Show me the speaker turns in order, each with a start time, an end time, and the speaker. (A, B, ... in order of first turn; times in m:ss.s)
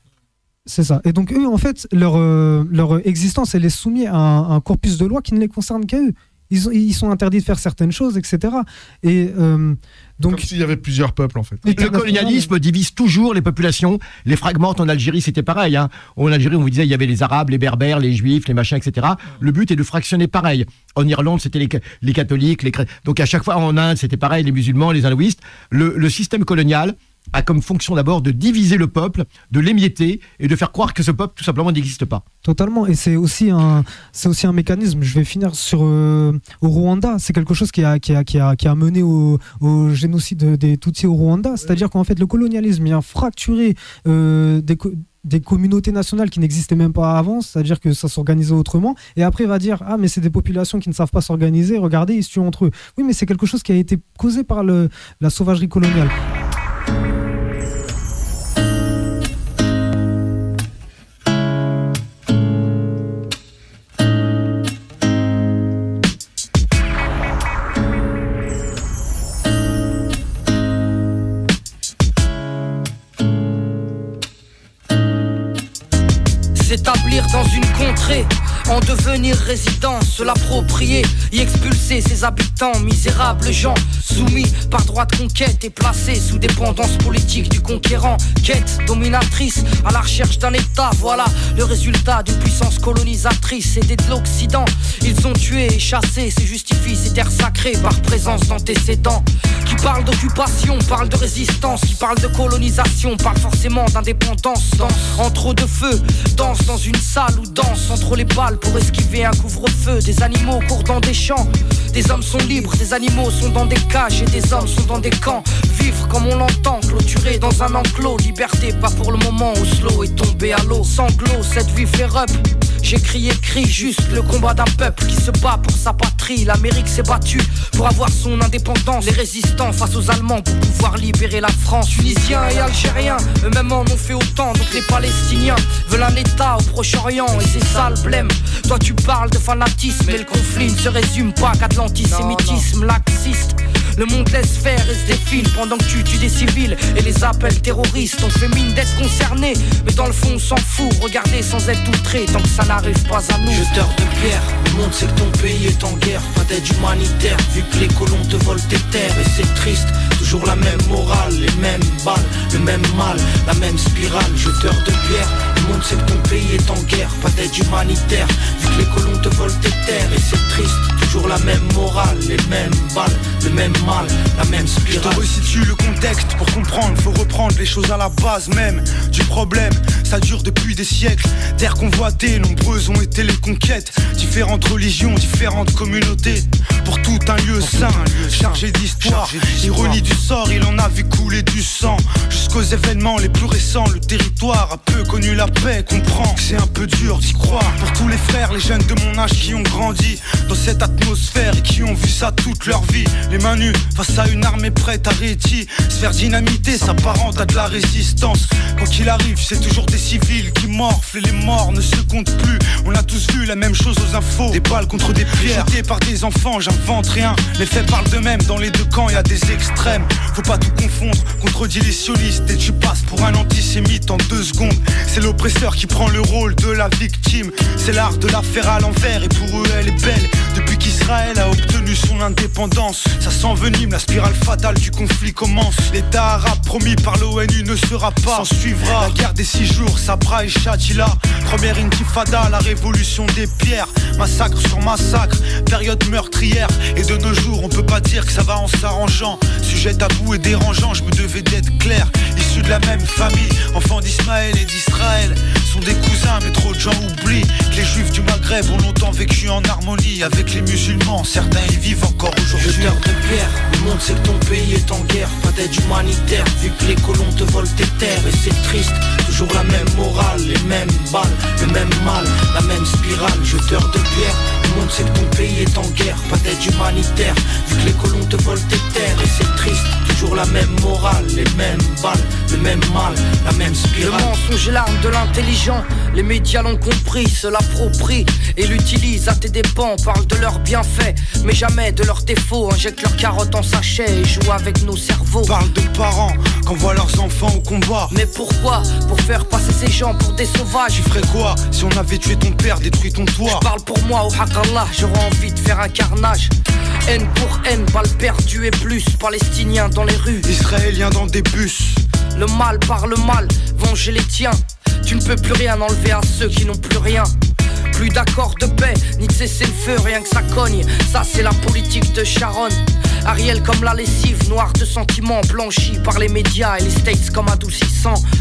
0:00.7-0:10.5 A
0:10.3-0:12.3 B
0:11.6-0:12.5 A
0:11.8-0:32.2 C
0:32.4-0:56.1 A
1:16.6-2:33.7 D
2:12.1-2:12.9 E
2:33.4-2:55.3 E
2:54.9-4:23.0 F
4:22.5-4:44.3 E
4:44.0-4:55.6 D
4:55.4-4:58.2 F
4:58.1-5:01.1 D
5:00.9-5:03.7 F
5:03.4-5:06.5 D
5:07.1-5:10.5 D
5:10.4-5:12.0 F
5:12.3-5:17.3 D
5:17.9-5:28.2 D